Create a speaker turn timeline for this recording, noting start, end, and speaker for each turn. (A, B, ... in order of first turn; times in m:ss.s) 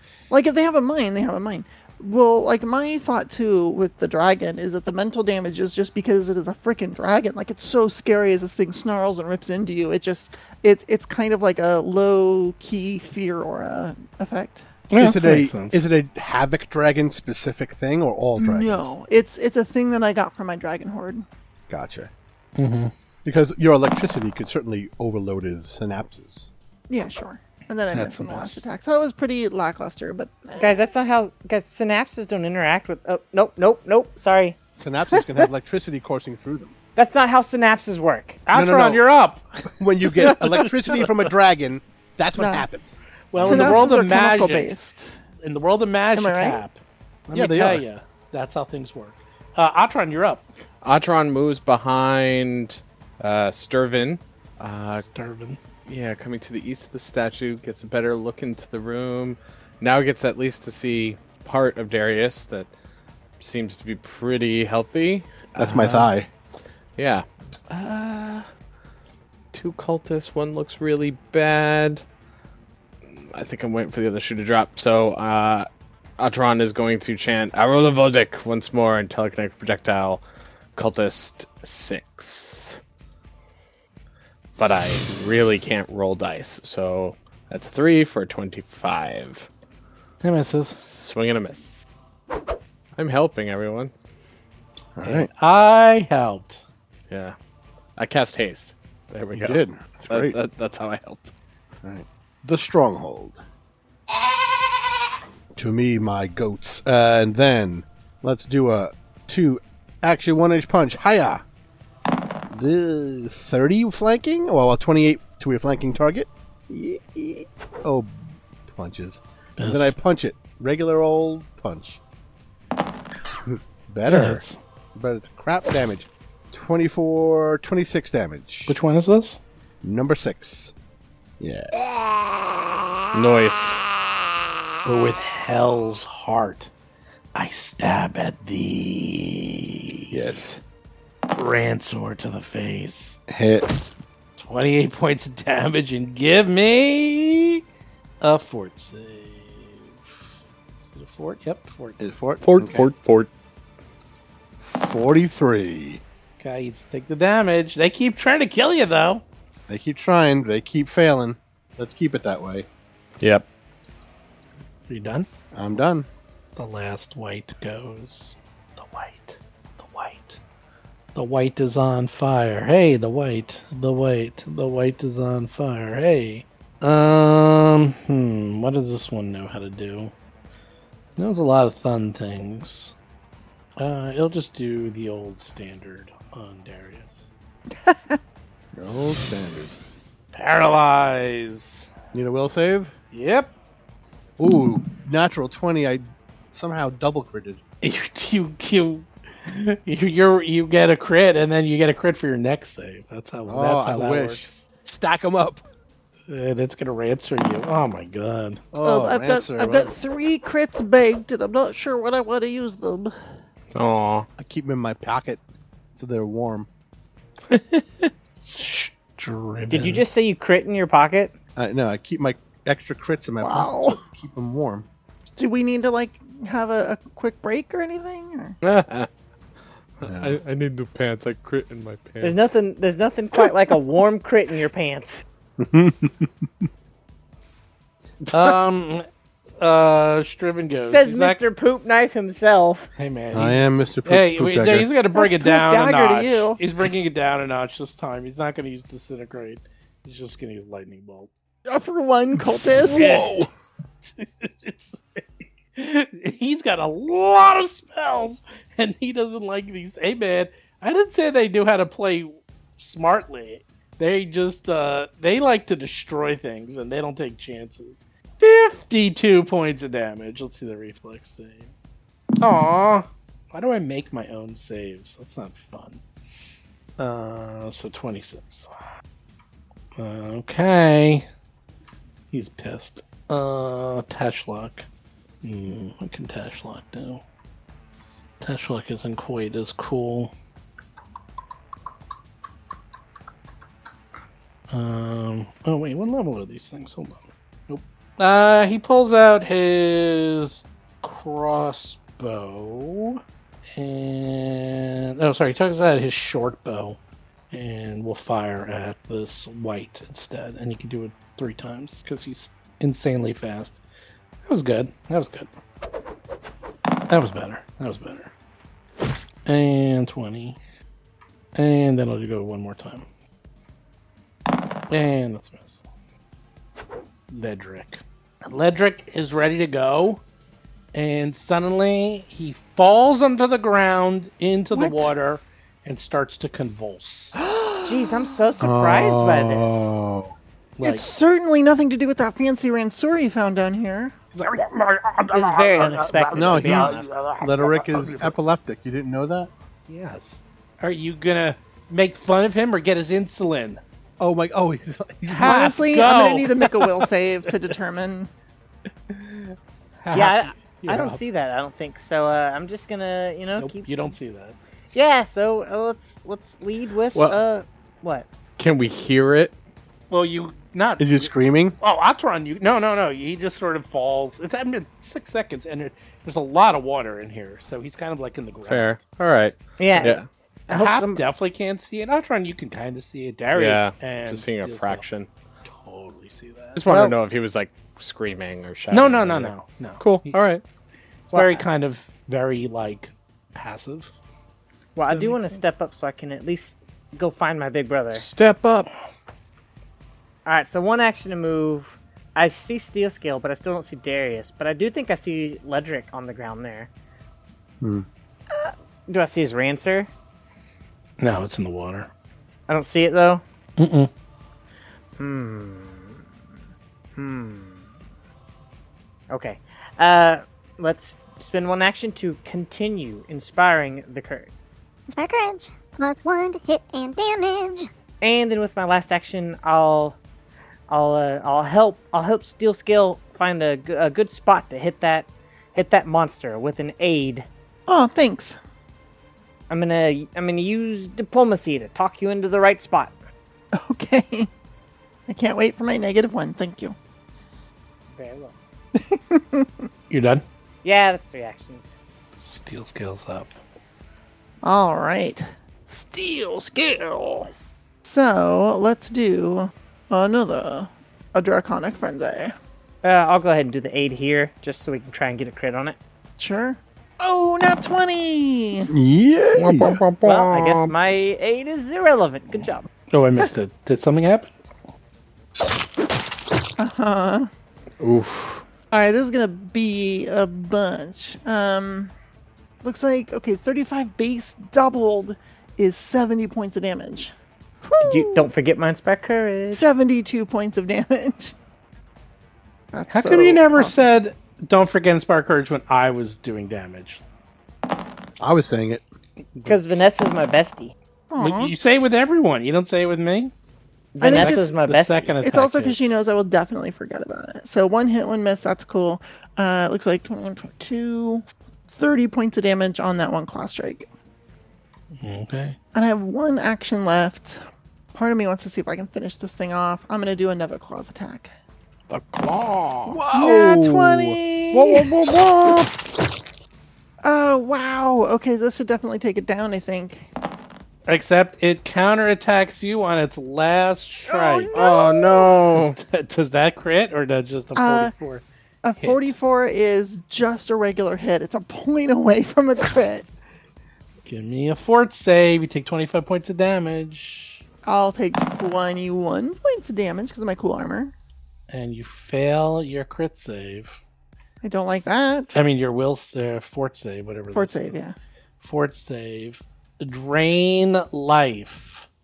0:00.3-0:14.6 A
0:14.9-0:15.8 B
0:15.0-0:18.9 C
0:18.4-0:21.2 A
0:21.7-0:22.1 C
0:22.6-0:22.9 B
0:23.2-0:26.5 C
0:26.9-0:30.8 A
0:27.9-0:28.7 B
0:30.6-0:34.6 D
0:34.8-0:36.7 C
0:35.1-0:35.4 A
0:37.0-0:38.4 D
0:38.5-0:41.3 B
0:38.5-0:39.0 C
0:39.8-0:43.9 C
0:42.4-0:42.6 A
0:43.3-0:44.7 B
0:43.4-0:45.2 A
0:45.4-0:50.5 B
0:46.1-0:46.6 A
0:47.3-0:47.8 C
0:50.8-0:55.0 E
0:55.0-0:55.6 B
0:55.8-1:02.7 E
1:03.4-1:06.1 E
1:05.6-1:06.3 C
1:07.0-1:08.5 E
1:09.5-1:12.0 E
1:13.1-1:20.2 E
1:20.8-1:22.8 E
1:24.6-1:29.5 E
1:30.2-1:30.8 B
1:30.8-1:31.8 E
1:33.0-1:33.9 E
1:35.0-1:35.3 C
1:35.0-1:36.6 B
1:37.1-1:37.4 E
1:38.0-1:41.3 E
1:39.3-1:40.4 C
1:41.8-1:43.4 C
1:45.5-1:51.4 C
1:52.5-2:02.0 C
1:59.6-2:00.0 B
2:03.4-2:04.4 C
2:04.0-2:04.6 B
2:04.9-2:08.7 C
2:08.7-2:09.4 B
2:09.8-2:10.7 C
2:11.4-2:11.7 C
2:13.1-2:13.8 E
2:14.8-2:16.7 B
2:17.3-2:20.2 B
2:20.1-2:20.6 C
2:21.3-2:23.2 B
2:23.3-2:23.7 C
2:24.4-2:27.6 B
2:28.2-2:30.3 B
2:30.9-2:32.0 B
2:32.0-2:32.9 C
2:32.4-2:33.3 E
2:34.6-2:36.0 C
2:36.4-2:39.2 B
2:39.7-2:42.7 C
2:43.2-2:43.4 E
2:44.9-2:45.3 B
2:45.5-2:46.1 C
2:46.6-2:50.4 B
2:51.1-3:00.1 B
3:01.2-3:02.9 B
3:03.8-3:07.3 B
3:07.7-3:08.2 A
3:08.7-3:09.7 C
3:10.3-3:11.9 B
3:12.1-3:12.9 C
3:13.1-3:13.5 B
3:14.4-3:17.6 C
3:17.8-3:24.7 B
3:23.5-3:25.6 C
3:26.3-3:28.6 B
3:28.7-3:29.9 C
3:28.8-3:33.2 A
3:33.7-3:34.3 E
3:34.4-3:35.4 C
3:35.9-3:36.7 C
3:37.5-3:38.1 E
3:38.5-3:40.0 B
3:39.7-3:41.3 D
3:41.6-3:44.9 C
3:43.4-3:44.0 A
3:45.4-3:48.6 A
3:48.6-3:49.1 E
3:50.0-3:52.4 E
3:50.0-3:50.4 C
3:52.2-3:55.2 D
3:55.6-3:56.7 C
3:58.3-3:59.0 B
3:59.6-4:01.4 B
4:00.8-4:02.9 D
4:03.0-4:11.3 B
4:03.3-4:04.9 C
4:05.1-4:06.6 A
4:11.6-4:13.2 A
4:12.9-4:13.3 B
4:12.9-4:13.4 C
4:14.0-4:15.2 B
4:15.7-4:31.7 B
4:32.4-4:36.0 B
4:37.0-4:38.7 B
4:40.0-4:41.3 B
4:42.3-4:44.8 B
4:45.4-4:47.2 B
4:48.4-4:50.3 B
4:54.7-5:03.2 B
5:03.7-5:07.0 B
5:07.5-5:13.8 B
5:14.4-5:15.5 B
5:17.1-5:18.3 B
5:19.4-5:20.6 B
5:21.5-5:23.0 B
5:24.9-5:25.8 B
5:27.3-5:30.2 B
5:30.9-5:37.4 B
5:34.7-5:35.1 A
5:37.4-5:38.4 A
5:37.8-5:39.9 D
5:38.6-5:40.3 C
5:40.8-5:41.1 B
5:40.8-5:44.1 A
5:44.3-5:48.3 B
5:45.3-5:47.1 D
5:46.3-5:49.5 C
5:49.9-5:53.8 B
5:54.2-5:55.7 C
5:55.2-5:57.0 B
5:55.4-5:58.3 A
5:59.1-6:01.2 B
6:00.1-6:03.9 D
6:03.6-6:04.6 B
6:04.9-6:08.3 D
6:08.6-6:09.5 E
6:10.1-6:19.0 B
6:11.0-6:11.8 C
6:18.7-6:20.2 E
6:19.8-6:21.2 D
6:20.7-6:25.0 B
6:23.5-6:25.3 E
6:25.6-6:26.8 B
6:26.8-6:30.6 E
6:26.8-6:27.1 C
6:28.9-6:30.4 B
6:31.3-6:34.1 B
6:31.3-6:31.6 D
6:34.9-6:38.2 D
6:35.1-6:35.6 B
6:38.1-6:38.9 E
6:40.4-6:46.9 D
6:47.8-6:48.0 C
6:48.5-6:50.1 D
6:51.2-6:52.1 B
6:52.7-6:53.4 D
6:53.8-6:54.1 B
6:55.2-6:56.2 D
6:57.2-6:57.9 D
6:59.3-7:04.5 D
7:05.1-7:07.9 F
7:08.2-7:10.2 D
7:10.9-7:17.5 D
7:17.9-7:18.6 A
7:19.7-7:23.1 D
7:23.7-7:24.5 A
7:25.3-7:27.0 A
7:28.1-7:28.6 D
7:29.0-7:29.9 A
7:30.1-7:30.4 B
7:30.8-7:31.9 D
7:32.4-7:33.6 B
7:34.6-7:37.5 A
7:38.0-7:42.5 A
7:43.0-7:46.0 D
7:46.4-7:48.9 A
7:48.9-7:50.0 C
7:49.5-7:50.9 E
7:50.2-7:52.9 D
7:53.1-7:54.5 B
7:56.8-7:57.5 A
7:58.0-7:58.6 E
7:58.9-8:02.1 A
8:02.8-8:08.5 A
8:08.0-8:09.9 D
8:09.7-8:11.5 A
8:12.9-8:13.9 A
8:13.1-8:17.2 B
8:18.4-8:19.0 C
8:19.6-8:20.0 B
8:19.6-8:20.9 D
8:21.3-8:21.7 A
8:21.4-8:23.5 B
8:24.1-8:25.4 D
8:24.2-8:24.7 A
8:24.3-8:26.2 B
8:25.4-8:34.1 A
8:35.2-8:35.8 B
8:35.9-8:37.6 A
8:38.1-8:41.5 A
8:42.1-8:43.2 B
8:43.0-8:44.4 C
8:43.3-8:45.0 A
8:44.7-8:45.9 E
8:47.2-8:50.3 A
8:51.1-8:54.7 B
8:54.3-8:55.5 A
8:54.7-8:56.0 E
8:55.7-8:58.4 B
8:57.8-8:58.1 A
8:58.8-9:03.3 A
8:59.0-8:59.3 B
9:04.2-9:07.6 B
9:07.8-9:11.1 A
9:11.7-9:14.0 B
9:14.6-9:15.6 A
9:15.5-9:18.0 B
9:17.5-9:18.1 A
9:18.6-9:22.1 B